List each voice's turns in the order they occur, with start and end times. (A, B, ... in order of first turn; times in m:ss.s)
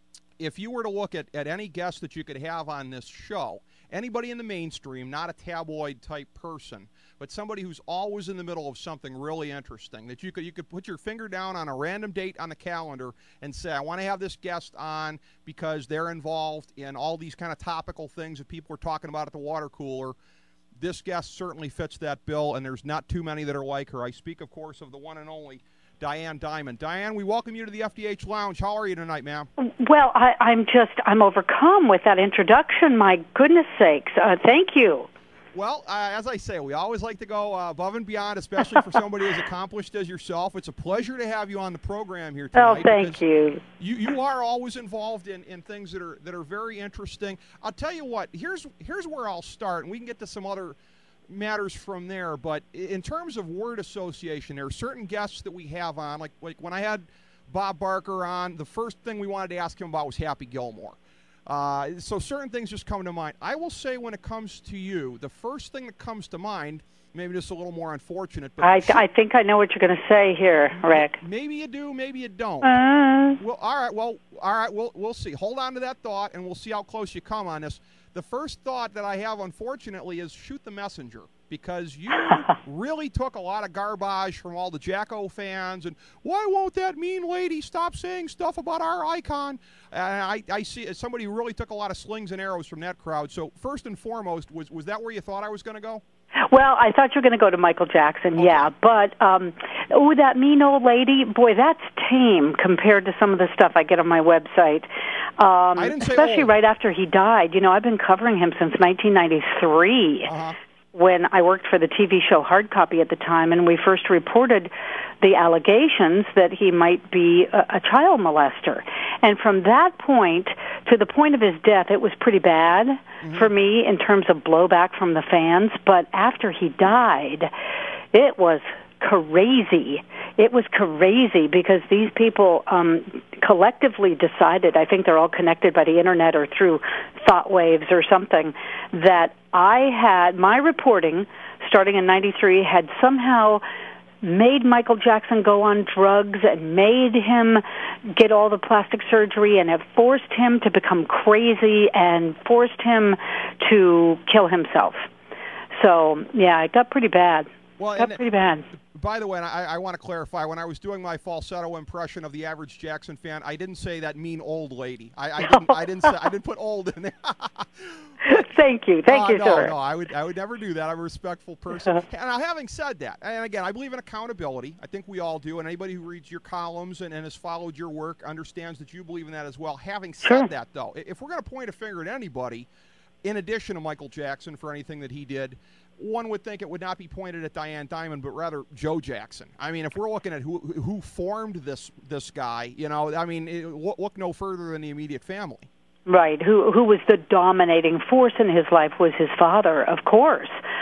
0:00.4-0:20.2 A
0:20.8-0:29.5 A
0:29.6-0:35.1 B
0:35.5-0:43.2 A
0:42.6-0:43.6 B
0:43.8-0:50.8 A
0:51.3-1:09.0 A
1:08.6-1:11.2 B
1:11.0-1:12.8 A
1:12.6-1:13.4 B
1:13.4-1:36.0 A
1:36.5-1:50.3 B
1:38.4-1:38.7 A
1:45.8-1:46.5 A
1:50.3-1:50.6 A
1:50.9-1:54.7 B
1:55.2-2:07.5 B
2:03.2-2:03.5 A
2:08.1-2:23.6 B
2:24.2-2:35.1 B
2:35.7-2:38.6 B
2:37.8-2:38.2 A
2:38.9-2:48.5 A
2:45.4-2:46.1 B
2:48.2-2:49.7 B
2:49.1-3:02.7 A
3:00.2-3:00.5 B
3:03.2-3:15.7 A
3:16.1-3:20.5 B